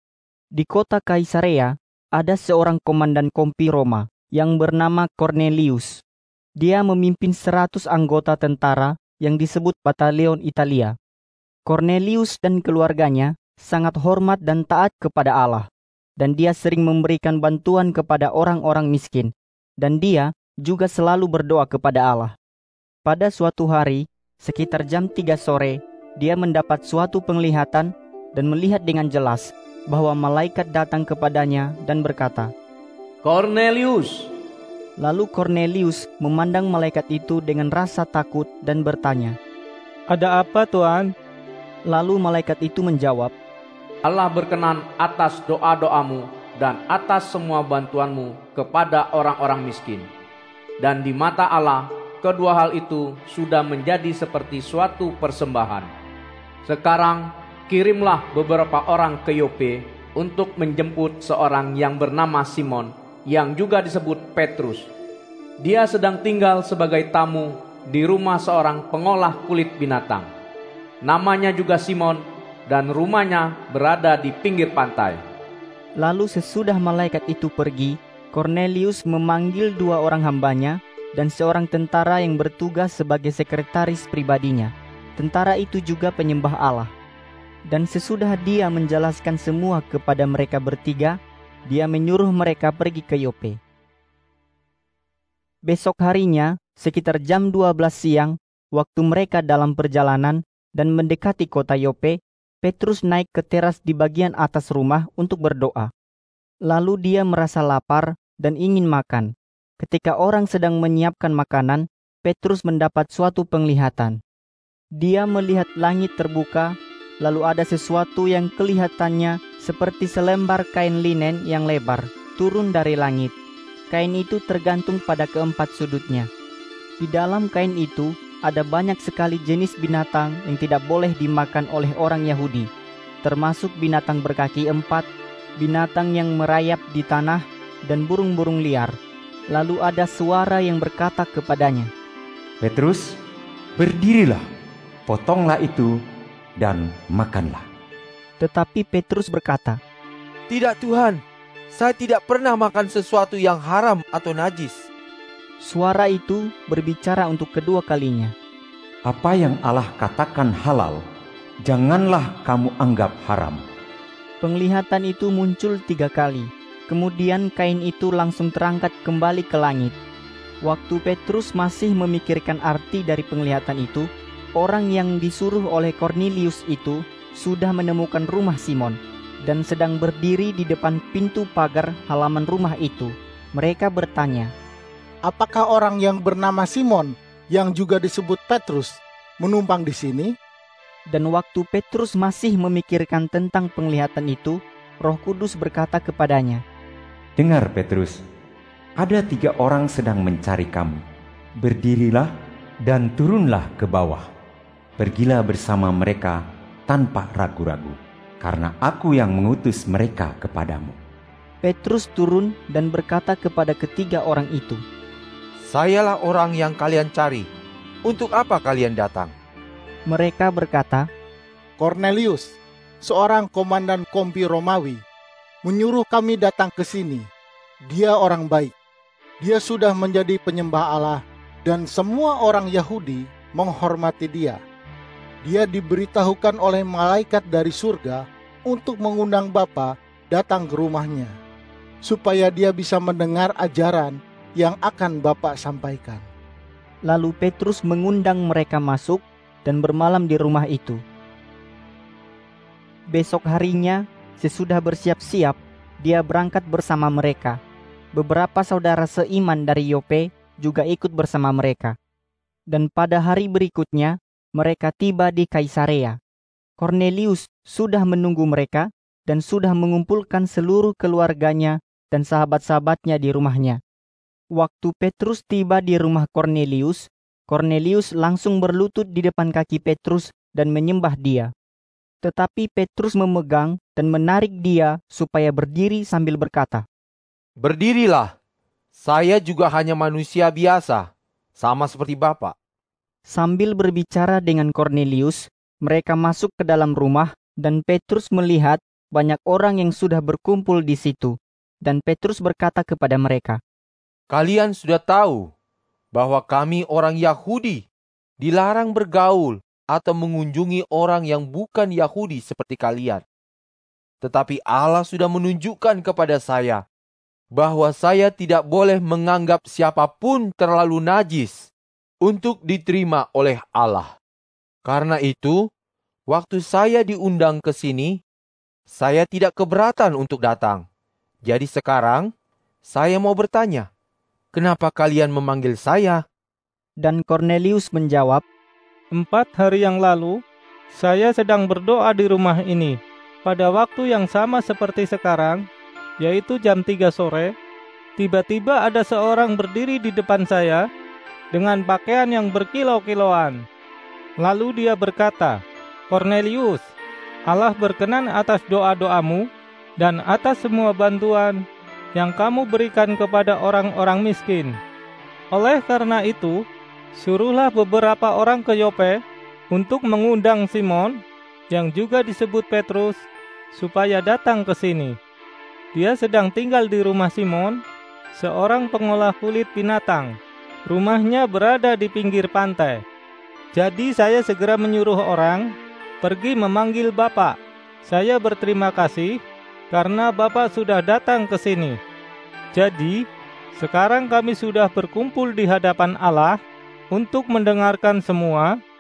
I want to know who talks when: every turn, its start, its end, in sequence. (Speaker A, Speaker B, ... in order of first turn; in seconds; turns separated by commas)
Speaker A: 0.5-6.0, Speaker A: 6.6-10.9, Speaker A: 11.7-22.4, Speaker A: 23.0-32.5, Speaker B: 33.2-34.3, Speaker A: 35.0-39.4, Speaker C: 40.1-41.1, Speaker A: 41.9-43.3, Speaker B: 44.0-50.1, Speaker B: 50.8-55.9, Speaker B: 56.6-64.9, Speaker B: 65.6-70.3, Speaker B: 71.0-75.2, Speaker A: 76.0-86.9, Speaker A: 87.7-93.6, Speaker A: 95.7-105.9, Speaker A: 106.7-114.2, Speaker A: 115.0-123.3, Speaker A: 123.9-126.3, Speaker A: 127.0-132.7, Speaker A: 133.2-135.1, Speaker A: 135.6-139.0, Speaker A: 139.5-141.9, Speaker D: 142.6-143.1, Speaker D: 143.8-144.4, Speaker D: 145.1-145.9, Speaker D: 146.6-147.7, Speaker A: 148.4-149.8, Speaker E: 150.5-151.2, Speaker E: 151.7-154.9, Speaker A: 155.6-158.3, Speaker D: 159.1-161.0, Speaker D: 161.6-163.6, Speaker A: 164.4-170.0, Speaker A: 170.6-184.5, Speaker F: 185.2-190.3, Speaker A: 191.1-196.6, Speaker D: 197.4-198.2, Speaker D: 198.9-201.0, Speaker D: 201.6-202.3, Speaker D: 202.8-204.3, Speaker D: 205.0-211.0, Speaker A: 211.6-214.8, Speaker E: 215.6-217.5, Speaker E: 218.1-219.3, Speaker A: 220.1-221.1, Speaker F: 221.8-225.0, Speaker F: 225.6-227.2, Speaker F: 227.8-228.7, Speaker F: 229.4-234.6, Speaker F: 235.4-241.3, Speaker F: 242.0-246.2, Speaker A: 247.1-251.0, Speaker A: 253.1-257.6, Speaker A: 258.1-261.9, Speaker A: 262.7-266.2, Speaker A: 266.8-273.8, Speaker A: 274.5-281.5, Speaker A: 282.2-286.9, Speaker E: 287.6-288.3, Speaker E: 288.9-292.5, Speaker A: 293.3-303.6, Speaker E: 304.3-305.5, Speaker E: 306.1-307.8, Speaker E: 308.4-313.2, Speaker E: 314.2-316.8, Speaker E: 317.5-321.7, Speaker E: 322.2-324.1, Speaker E: 324.8-325.6, Speaker E: 326.3-328.2, Speaker E: 328.9-330.8, Speaker E: 331.4-332.3, Speaker E: 332.9-333.9, Speaker E: 334.5-336.2, Speaker A: 337.0-338.4, Speaker C: 339.1-340.4, Speaker C: 340.9-345.6, Speaker C: 346.2-347.5, Speaker C: 348.2-350.8, Speaker C: 351.5-353.6, Speaker C: 354.4-356.9, Speaker C: 357.5-361.6, Speaker C: 362.1-364.8, Speaker C: 365.5-375.2, Speaker C: 375.9-377.8, Speaker C: 378.3-383.0, Speaker C: 383.7-389.4, Speaker C: 389.9-392.0, Speaker C: 392.7-396.6, Speaker C: 397.1-398.7